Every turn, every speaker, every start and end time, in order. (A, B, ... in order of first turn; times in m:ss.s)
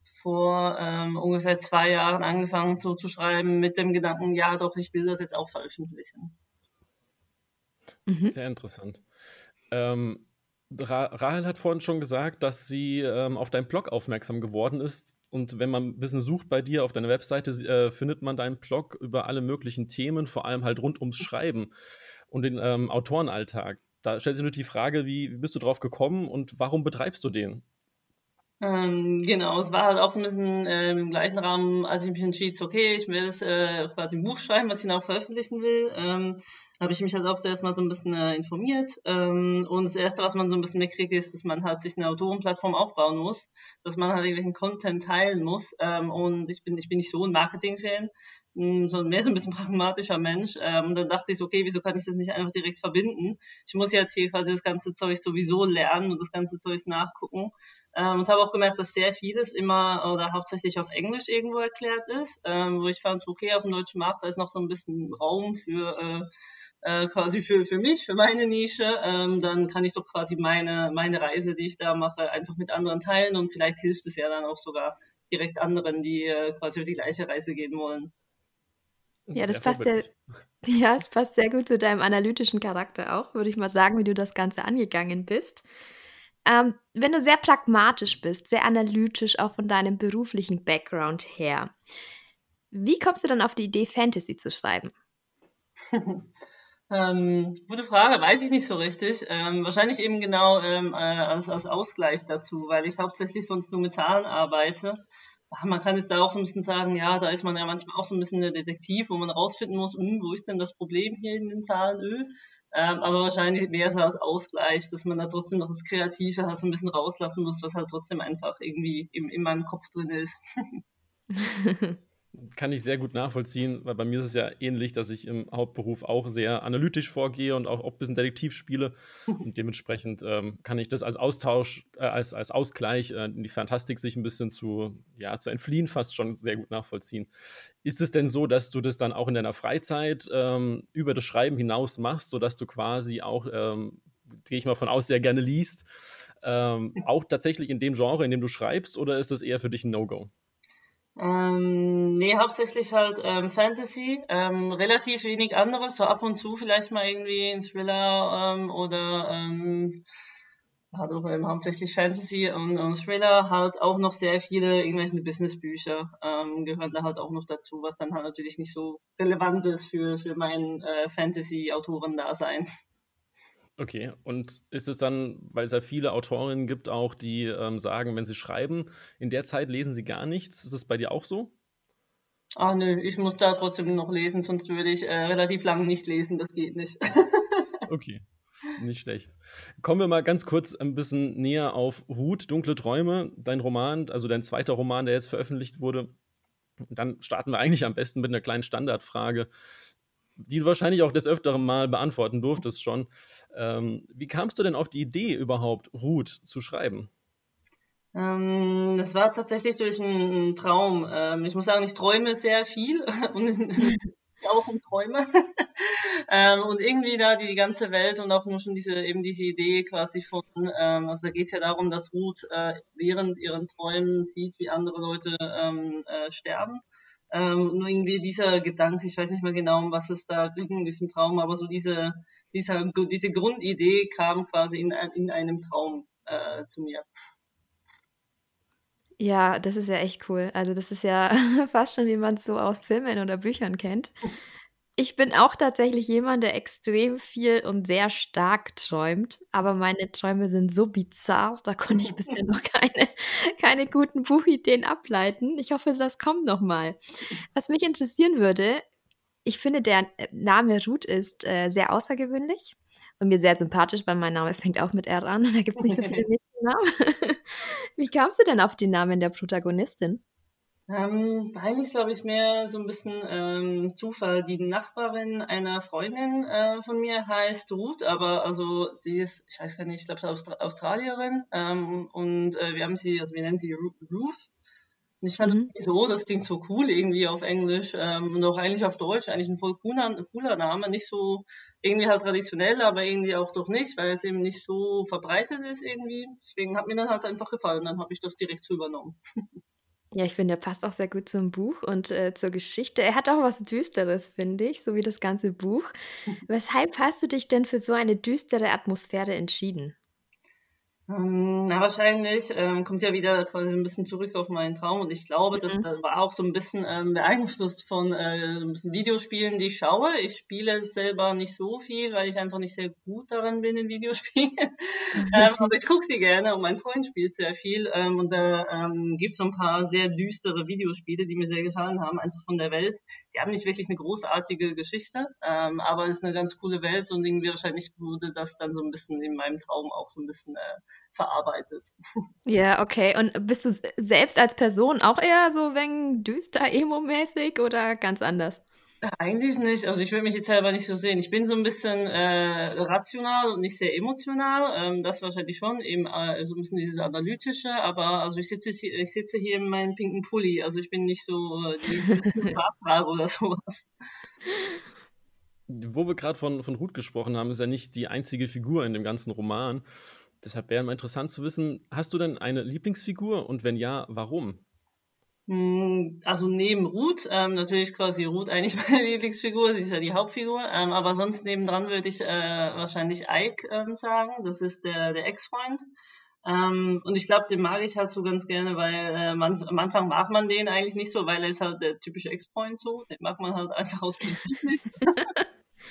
0:00.2-0:06.3 A
0:08.1-0:08.3 B
0:08.2-0:09.0 C
0:09.7-0:21.7 C
0:22.3-0:27.6 C
0:28.6-1:06.3 A
1:06.8-1:18.1 A
1:19.3-1:20.2 C
1:19.4-1:20.1 B
1:20.6-1:25.6 B
1:26.4-1:31.7 B
1:32.7-1:34.9 B
1:35.9-1:36.2 A
1:36.9-2:00.8 A
2:01.4-2:01.9 B
2:02.4-2:17.3 C
2:17.8-2:30.3 C
2:31.2-2:40.0 A
2:40.9-2:52.7 A
2:53.8-3:01.5 C
3:02.6-3:07.7 A
3:07.9-3:16.1 C
3:16.9-3:19.5 C
3:20.4-3:27.1 C
3:28.1-3:46.8 A
3:47.3-3:57.1 A
3:59.2-4:04.1 B
4:05.0-4:17.0 B
4:17.6-4:18.8 B
4:19.4-4:30.2 B
4:25.8-4:26.2 A
4:30.9-4:44.5 A
4:45.2-4:59.2 A
4:45.4-4:45.7 B
5:00.1-5:05.9 B
5:06.5-5:09.9 B
5:11.1-5:41.9 A
5:15.6-5:15.8 B
5:25.3-5:25.6 B
5:42.4-5:48.6 B
5:49.1-6:03.9 A
6:05.7-6:09.8 C
6:10.4-6:14.6 C
6:15.5-6:25.8 A
6:26.4-6:35.3 A